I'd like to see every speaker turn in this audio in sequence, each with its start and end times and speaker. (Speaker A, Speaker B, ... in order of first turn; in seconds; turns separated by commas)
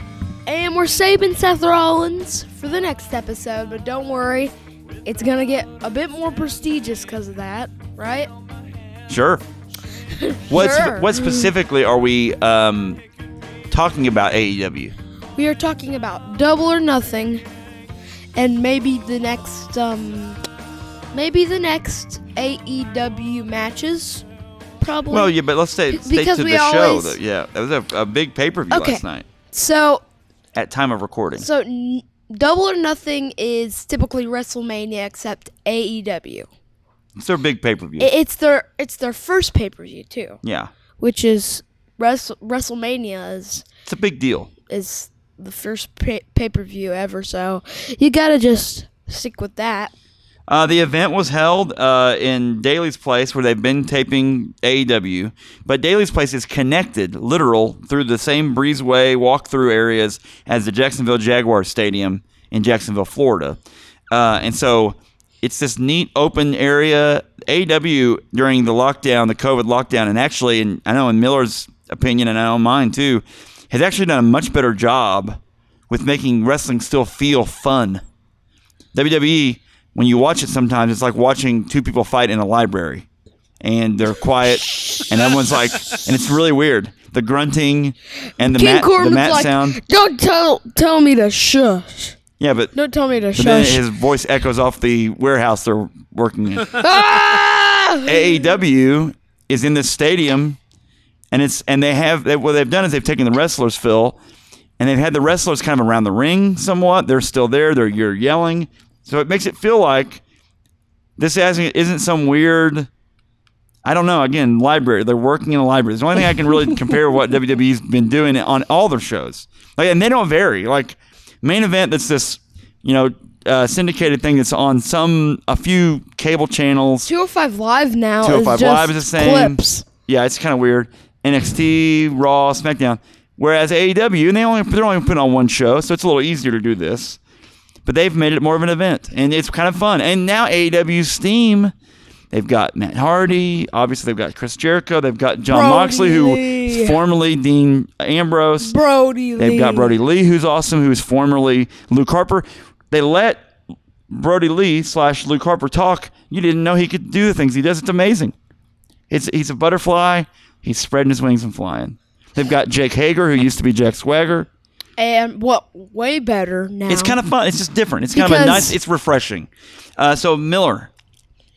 Speaker A: 0.5-4.5, Speaker A: 5.1-8.3, Speaker B: 9.1-9.4, Speaker A: 10.1-11.5, Speaker B: 10.5-13.0, Speaker B: 13.7-14.9, Speaker A: 15.4-17.4, Speaker A: 18.4-20.4, Speaker A: 21.1-24.3, Speaker A: 24.8-25.3, Speaker B: 25.1-29.3, Speaker A: 25.9-27.2, Speaker A: 28.7-30.0, Speaker B: 30.6-31.5, Speaker A: 31.4-36.5, Speaker B: 37.2-38.1, Speaker A: 38.0-40.4, Speaker B: 40.4-40.7, Speaker A: 41.0-43.7, Speaker B: 43.9-44.5, Speaker A: 44.7-49.9, Speaker B: 50.5-63.6, Speaker B: 64.1-78.0, Speaker B: 78.9-83.0, Speaker B: 83.6-89.8, Speaker A: 84.6-85.1, Speaker A: 88.4-92.2, Speaker B: 92.4-92.7, Speaker A: 92.7-93.8, Speaker B: 93.3-96.8, Speaker A: 96.8-98.5, Speaker B: 98.0-100.6, Speaker B: 101.3-104.2, Speaker B: 104.8-110.2, Speaker B: 111.2-112.9, Speaker B: 113.9-127.1, Speaker A: 127.0-129.9, Speaker B: 128.2-137.2, Speaker B: 137.8-141.7, Speaker B: 142.3-148.7, Speaker A: 145.5-147.0, Speaker A: 148.6-149.9, Speaker B: 149.4-153.4, Speaker B: 154.1-158.3, Speaker B: 159.1-164.5, Speaker A: 165.0-167.2, Speaker B: 166.9-170.9, Speaker A: 168.2-168.8